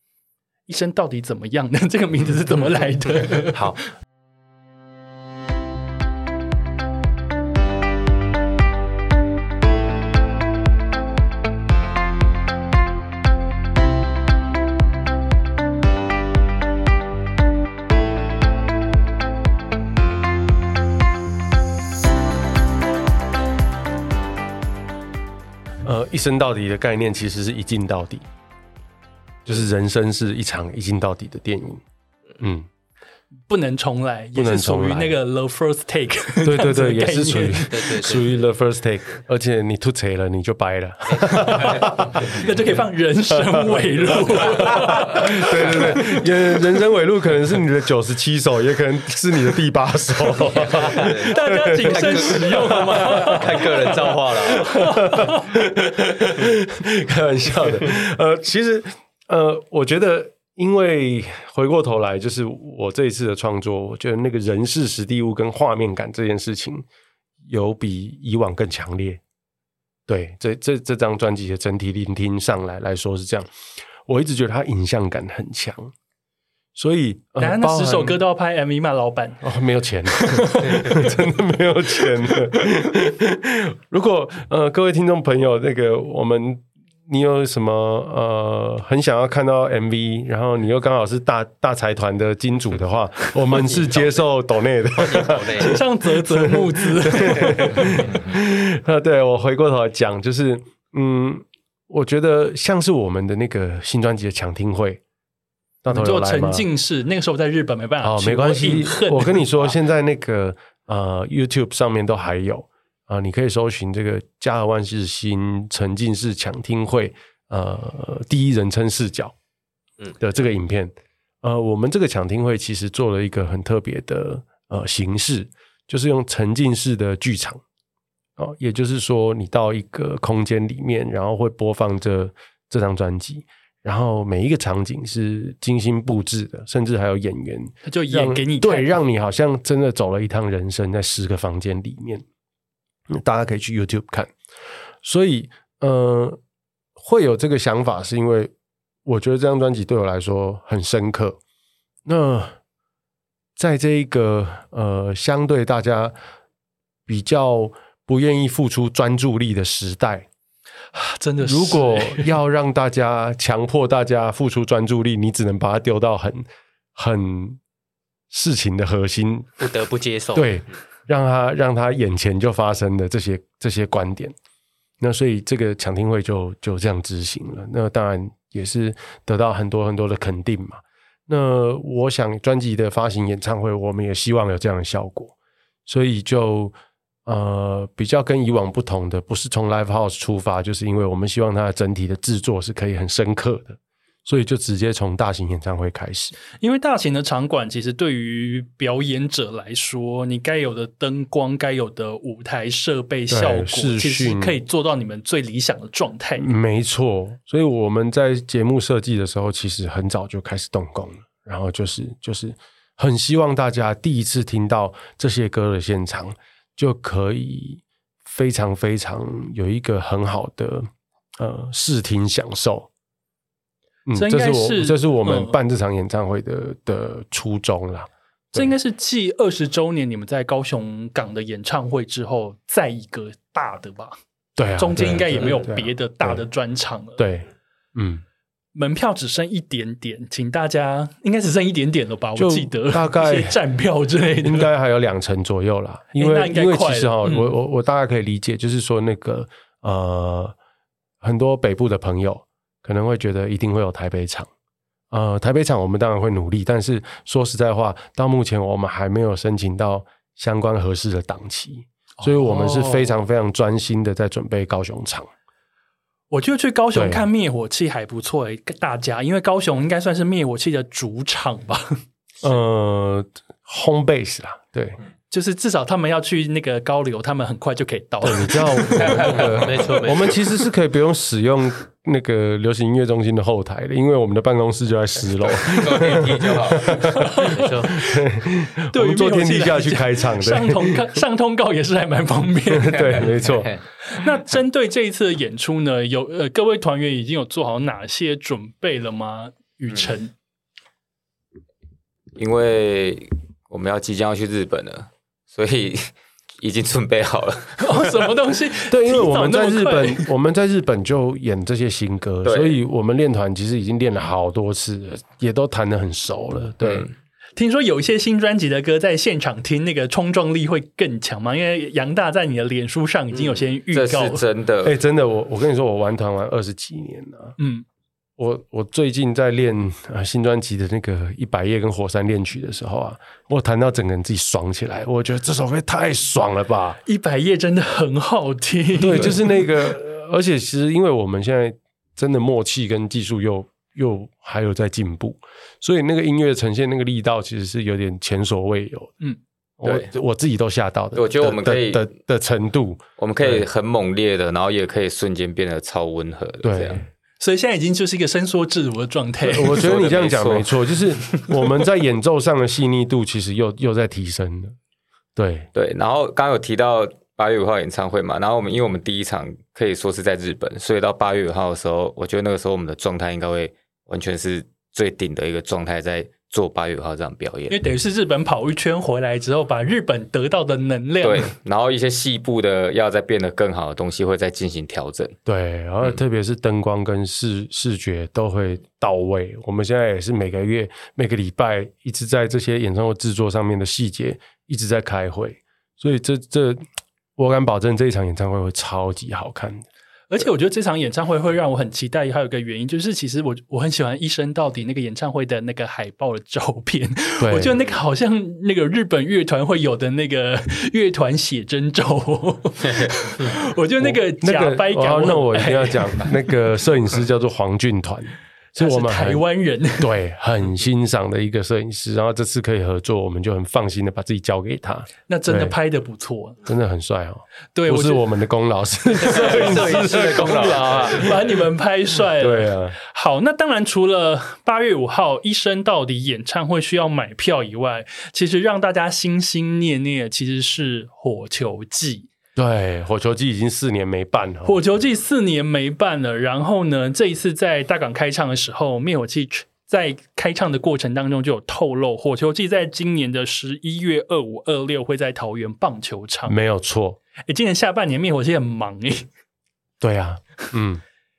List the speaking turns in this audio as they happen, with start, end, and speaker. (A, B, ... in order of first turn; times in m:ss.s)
0:00.7-0:03.8 A
0:03.5-0:03.8 B
0:25.8-0:28.2 B
0:29.4-0:31.8 B
0:32.4-0:32.7 B
0:33.5-0:37.8 A
0:34.4-0:35.2 B
0:36.4-0:42.5 B
0:37.7-0:38.4 C
0:41.6-0:46.2 A
0:43.3-1:06.8 B
0:50.5-0:51.3 C
0:50.6-0:55.4 A
0:51.9-0:54.9 C
1:07.4-1:09.2 B
1:10.1-1:13.5 B
1:14.0-1:15.9 B
1:16.7-1:18.2 B
1:17.4-1:19.4 A
1:19.4-1:45.0 B
1:20.1-1:21.1 A
1:33.5-1:34.1 C
1:35.0-1:35.8 C
1:35.6-1:37.9 A
1:45.8-1:46.6 B
1:45.9-1:49.7 A
1:48.0-1:59.3 B
2:00.2-2:07.6 B
2:08.4-2:22.2 B
2:17.8-2:18.9 A
2:23.1-2:24.3 B
2:25.0-2:26.4 B
2:27.0-2:28.5 B
2:29.0-2:31.4 B
2:32.0-2:32.6 B
2:33.6-2:36.1 B
2:37.1-2:40.3 B
2:40.9-2:42.3 A
2:41.4-2:46.4 B
2:47.0-2:47.6 B
2:48.3-2:49.7 B
2:49.6-2:50.6 C
2:50.3-2:54.3 B
2:55.0-3:05.3 B
3:05.9-3:06.7 B
3:07.2-3:16.4 B
3:16.6-3:26.5 A
3:23.3-3:24.6 B
3:26.4-3:42.9 B
3:44.1-3:48.7 B
3:44.1-3:45.6 A
3:48.5-3:54.2 A
3:54.6-3:56.4 B
3:54.8-3:57.2 A
3:57.2-3:58.2 B
3:58.7-4:04.7 A
4:02.4-4:03.6 B
4:04.4-4:10.6 B
4:06.1-4:07.5 A
4:11.2-4:14.5 B
4:15.1-4:25.3 B
4:22.2-4:23.2 A
4:26.3-4:32.0 A
4:26.9-4:27.2 B
4:32.4-4:35.0 B
4:35.3-4:39.4 A
4:38.2-4:51.0 B
4:39.1-4:39.5 D
4:39.5-4:40.4 C
4:45.6-4:47.1 D
4:47.1-4:48.2 A
4:47.5-4:47.9 C
4:48.9-4:53.3 A
4:52.7-4:53.8 B
4:54.1-5:00.3 A
5:02.4-5:07.9 D
5:07.8-5:10.3 A
5:08.9-5:17.0 B
5:12.4-5:12.8 D
5:16.8-5:17.1 D
5:17.6-5:24.4 A
5:23.9-5:24.9 D
5:24.8-5:27.5 B
5:27.6-5:27.8 A
5:28.4-5:37.0 B
5:37.0-5:39.5 A
5:39.0-5:49.1 B
5:49.8-5:53.6 B
5:49.8-5:50.1 D
5:51.2-5:52.1 D
5:53.2-5:57.0 D
5:56.6-5:57.1 B
5:57.4-5:59.8 A
5:59.4-6:04.8 B
5:59.7-6:00.7 D
6:05.4-6:05.7 B
6:05.7-6:17.8 D
6:17.7-6:21.5 A
6:21.2-6:25.4 D
6:25.4-6:36.8 B
6:37.4-6:39.8 B
6:40.3-6:56.3 A
6:47.4-6:47.8 B
6:54.0-6:59.4 B
6:58.8-7:00.1 A
7:00.0-7:05.7 B
7:05.3-7:06.6 A
7:06.6-7:11.4 B
7:07.8-7:08.2 A
7:09.2-7:11.3 C
7:09.3-7:10.1 A
7:11.2-7:22.3 A
7:12.4-7:13.0 B
7:22.6-7:24.8 B
7:24.6-7:36.6 A
7:36.5-7:37.2 B
7:37.5-7:39.3 A
7:40.0-7:41.0 B